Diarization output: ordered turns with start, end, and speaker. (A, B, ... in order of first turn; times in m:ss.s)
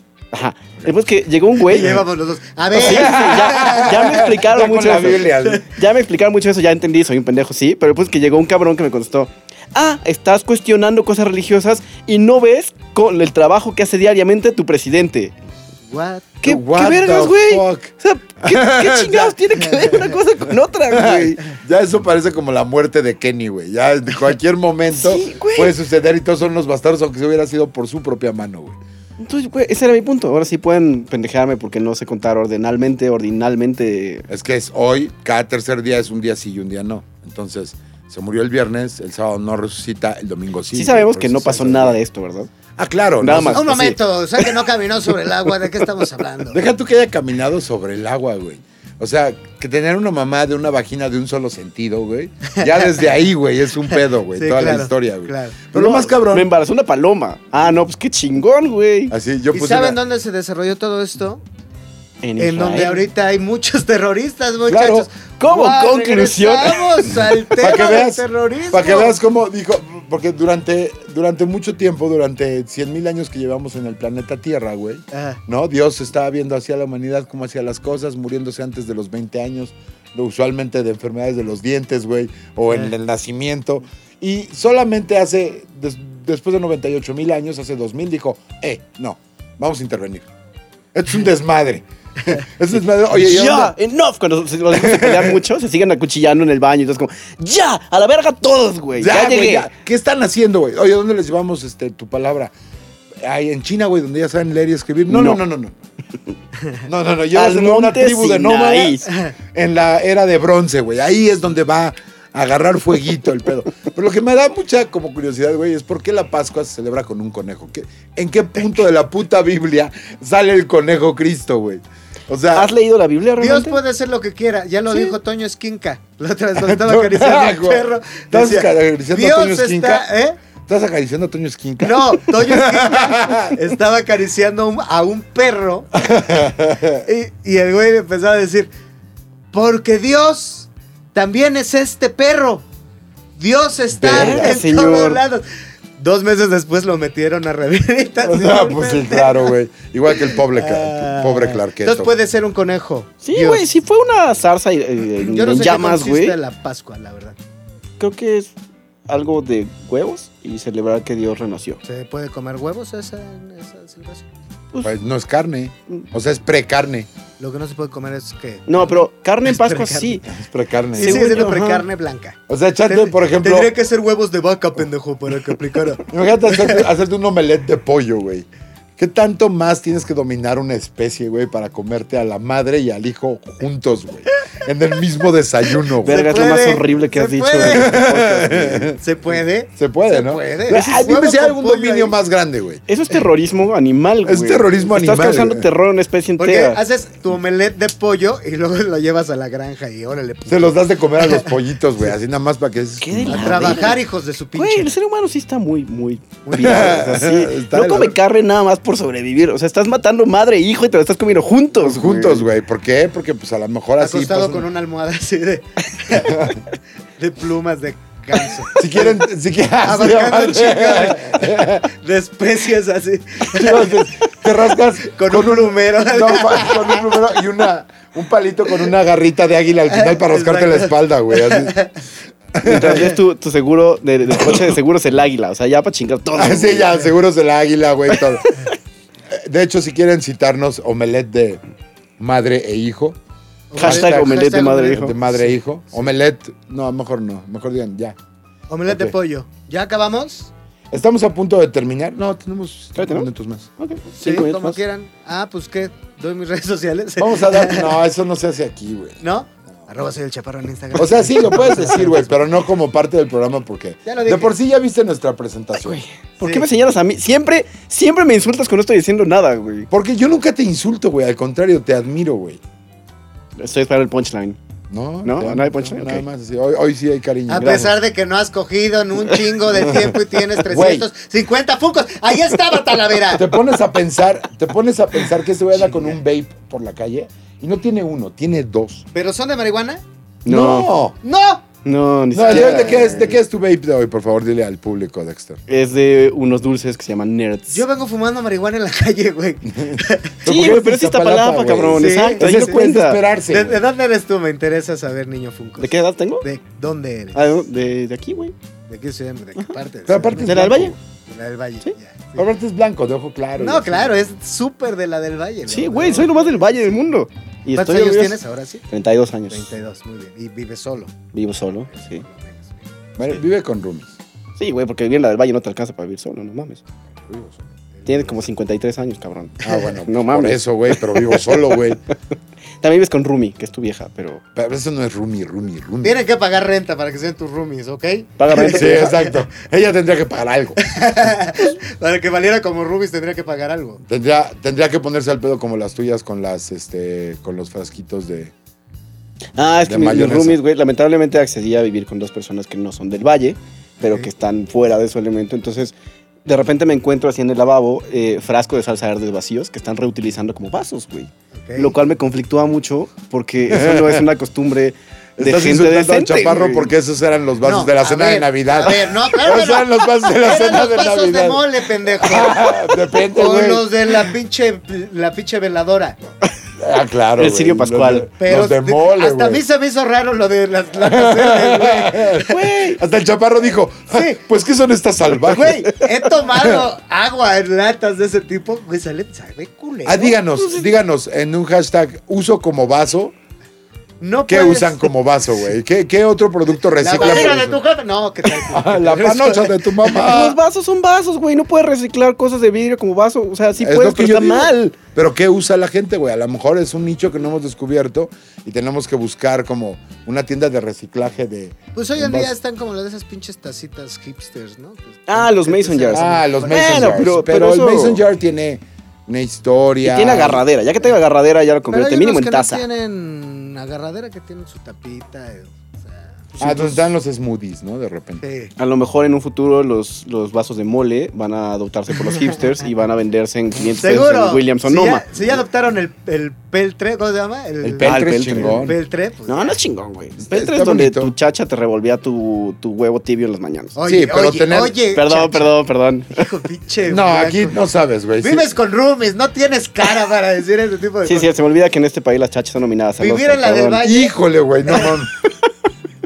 0:00.3-0:02.0 A
0:01.7-0:04.3 B
0:02.8-0:05.7 C
0:02.8-0:15.3 A
0:15.9-0:16.3 B
0:16.4-0:21.4 A
0:16.4-0:17.9 C
0:18.4-0:19.4 C
0:19.6-0:20.1 B
0:20.9-0:28.8 C
0:24.9-0:25.8 A
0:29.2-0:34.3 A
0:34.3-0:42.0 C
0:40.7-0:42.5 A
0:42.8-0:44.0 C
0:43.2-0:43.7 A
0:43.5-0:46.6 B
0:46.5-0:56.5 C
0:52.5-0:53.0 B
0:53.9-0:55.6 B
0:55.7-0:59.1 A
0:59.1-1:00.0 C
0:59.5-1:01.4 B
1:02.2-1:03.0 A
1:02.4-1:09.2 B
1:04.7-1:05.1 C
1:05.4-1:07.4 A
1:07.6-1:30.3 C
1:15.1-1:15.4 B
1:30.9-1:33.8 C
1:33.1-1:39.7 A
1:34.7-1:35.4 C
1:39.0-1:42.5 C
1:43.2-1:45.8 C
1:45.1-1:45.4 A
1:46.8-2:02.7 C
1:47.4-1:49.1 A
1:49.1-1:49.3 B
2:02.5-2:03.8 A
2:03.4-2:10.4 B
2:04.9-2:05.2 A
2:06.6-2:10.1 C
2:10.7-2:13.6 C
2:11.8-2:15.9 B
2:16.0-2:17.0 C
2:17.0-2:18.7 B
2:19.5-2:22.6 B
2:23.4-2:25.4 B
2:23.9-2:24.6 C
2:24.1-2:25.2 A
2:26.0-2:29.5 B
2:28.2-2:32.1 C
2:30.1-2:33.7 B
2:33.2-2:36.4 A
2:35.2-2:37.4 B
2:38.0-2:38.5 A
2:39.1-2:41.8 A
2:41.8-2:44.3 B
2:44.8-2:47.1 C
2:47.4-2:50.2 B
2:48.7-2:50.3 A
2:50.3-2:51.5 C
2:51.0-2:56.8 B
2:51.0-2:51.8 A
2:52.5-2:53.7 C
2:56.0-3:06.4 C
3:06.0-3:08.9 A
3:06.0-3:08.0 B
3:07.6-3:09.0 C
3:09.0-3:12.2 B
3:09.8-3:12.8 C
3:12.9-3:16.8 A
3:14.3-3:15.7 C
3:16.4-3:21.6 B
3:20.5-3:24.0 C
3:23.0-3:24.0 A
3:23.3-3:25.0 B
3:24.6-3:32.5 A
3:26.4-3:27.1 B
3:26.6-3:28.2 C
3:31.8-3:34.7 C
3:34.0-3:36.6 B
3:36.3-3:36.6 C
3:37.2-3:39.2 B
3:38.8-3:41.9 C
3:39.8-3:44.1 B
3:43.5-3:51.8 C
3:45.0-3:47.4 B
3:49.9-3:52.0 B
3:52.5-3:53.2 C
3:52.6-3:57.0 A
3:56.4-3:58.5 C
3:58.2-3:58.6 A
3:59.3-4:01.6 C
4:02.2-4:03.2 C
4:03.7-4:05.2 B
4:03.8-4:05.4 A
4:03.8-4:08.2 C
4:08.7-4:10.5 B
4:08.9-4:09.1 C
4:10.9-4:13.7 C
4:13.0-4:14.8 A
4:14.2-4:17.9 B
4:17.2-4:19.2 C
4:19.2-4:22.3 B
4:21.0-4:26.0 C
4:24.1-4:24.6 B
4:25.8-4:29.9 A
4:26.4-4:26.7 B
4:29.9-4:32.6 C
4:33.6-4:34.6 A
4:34.9-4:37.9 C
4:35.2-4:36.2 A
4:37.5-4:43.6 B
4:37.6-4:37.9 A
4:40.7-4:41.1 C
4:43.3-4:49.0 C
4:45.9-4:46.2 B
4:49.1-4:50.0 B
4:50.4-4:50.9 A
4:50.5-4:51.2 C
4:51.2-4:51.7 B
4:51.8-4:53.4 A
4:52.3-4:55.6 C
4:52.4-4:53.3 B
4:55.7-4:57.8 A
4:57.7-5:00.5 B
4:59.8-5:03.8 C
5:00.4-5:03.2 A
5:02.0-5:02.8 B
5:03.5-5:07.7 B
5:05.8-5:06.4 A
5:07.3-5:08.5 A
5:08.9-5:12.5 B
5:10.1-5:11.0 C
5:10.4-5:11.0 A
5:12.4-5:14.3 C
5:13.6-5:16.8 B
5:15.7-5:18.4 A
5:17.8-5:18.9 B
5:18.9-5:19.7 A
5:19.5-5:21.2 B
5:21.3-5:22.2 A
5:21.9-5:22.8 B
5:23.2-5:24.2 C
5:24.6-5:26.8 A
5:27.2-5:27.6 C
5:28.1-5:31.5 A
5:29.6-5:32.0 C
5:32.8-5:34.4 A
5:34.6-5:36.2 C
5:36.0-5:39.3 B
5:38.4-5:39.1 A
5:38.6-5:40.8 C
5:40.8-5:44.0 B
5:44.1-5:48.5 C
5:49.6-5:55.9 A
5:49.8-5:50.6 C
5:56.5-6:06.9 A
6:01.6-6:01.9 B
6:03.7-6:04.2 C
6:05.4-6:11.6 C
6:07.6-6:16.2 B
6:12.2-6:13.9 C
6:16.8-6:19.6 C
6:17.4-6:18.3 A
6:18.4-6:22.6 B
6:21.0-6:25.9 C
6:22.5-6:23.0 A
6:24.1-6:24.4 B
6:25.4-6:30.4 B
6:30.0-6:33.3 C
6:30.5-6:30.9 A
6:34.2-6:35.0 B
6:34.5-6:37.8 C
6:37.0-6:39.9 B
6:38.7-6:40.6 C
6:40.1-6:44.8 A
6:43.8-6:52.5 C
6:52.0-6:57.3 B
6:55.3-6:58.2 A
6:56.1-7:00.6 C
7:00.0-7:02.8 A
7:01.9-7:06.8 B
7:06.6-7:07.0 A
7:06.6-7:08.4 C
7:08.4-7:08.7 B
7:08.8-7:15.4 A
7:13.8-7:19.8 B
7:17.8-7:19.0 C
7:18.0-7:18.9 A
7:19.5-7:24.0 A
7:20.4-7:21.3 C
7:24.0-7:25.7 B
7:24.1-7:25.0 C
7:25.1-7:26.4 A
7:26.4-7:27.8 B
7:27.1-7:28.7 C
7:28.4-7:31.5 B
7:31.2-7:34.1 A
7:33.2-7:34.4 B
7:34.0-7:35.4 C
7:34.9-7:35.1 B